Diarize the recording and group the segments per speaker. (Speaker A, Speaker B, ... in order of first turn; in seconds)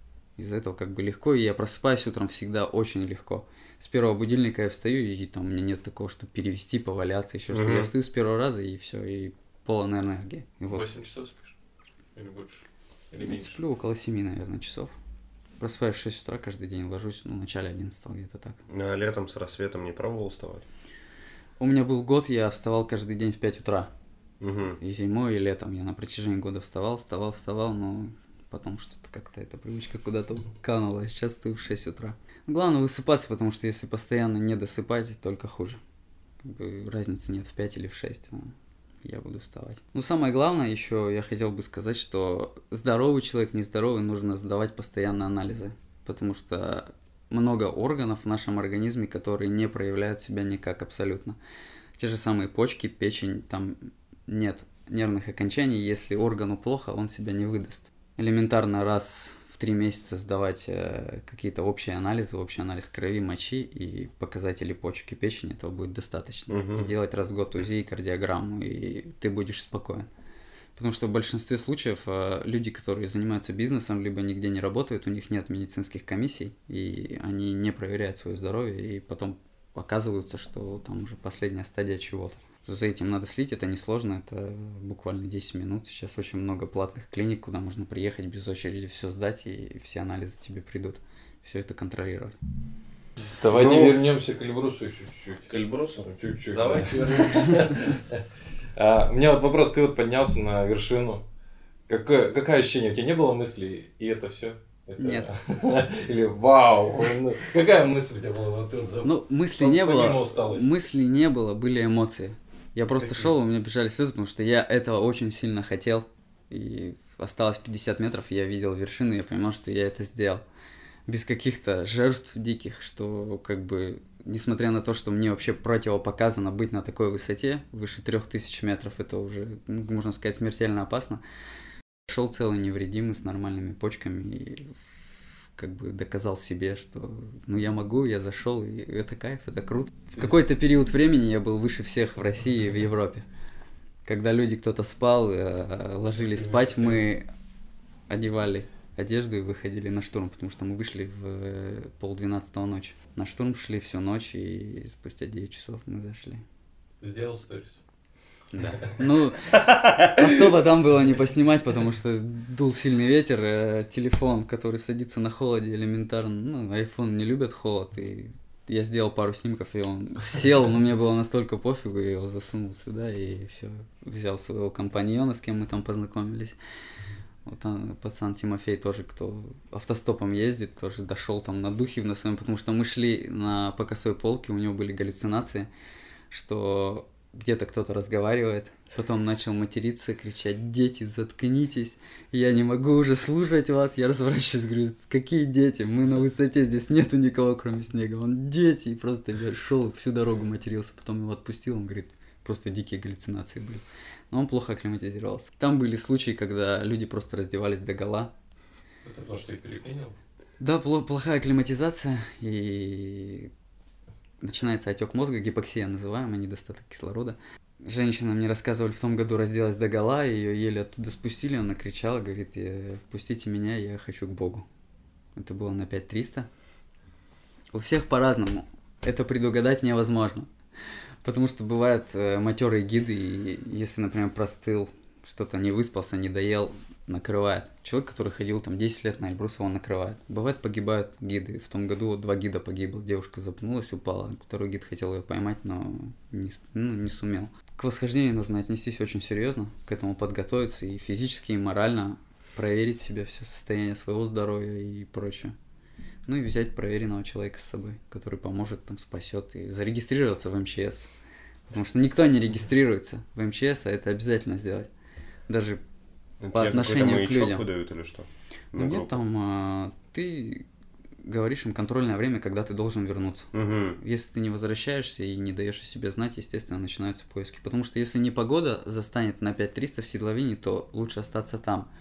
Speaker A: 0.4-10.9, 13.2-14.9, 15.6-18.6, 21.6-23.9, 24.8-35.8, 36.4-51.4, 52.0-70.1, 70.8-92.3, 105.0-105.3, 109.0-120.4, 121.1-131.2, 132.1-134.7, 135.6-143.2, 144.0-147.3, 148.1-156.4, 158.5-176.6, 177.4-185.7, 186.3-208.3, 210.6-213.5, 214.4-224.7, 225.3-226.5, 227.7-230.5, 231.2-255.5, 256.2-261.1, 261.7-264.9, 265.5-265.8, 266.5-267.6, 268.8-270.6, 271.2-281.9
Speaker B: 7.5-7.9, 18.7-20.6, 24.4-24.8, 66.5-66.9, 93.5-94.0, 95.5-97.7, 266.4-269.2, 273.5-274.0
Speaker C: 10.7-11.5, 12.1-13.6, 93.2-98.2, 98.8-101.2, 101.9-110.8, 113.0-113.3, 146.3-147.1, 157.0-157.8, 209.0-210.1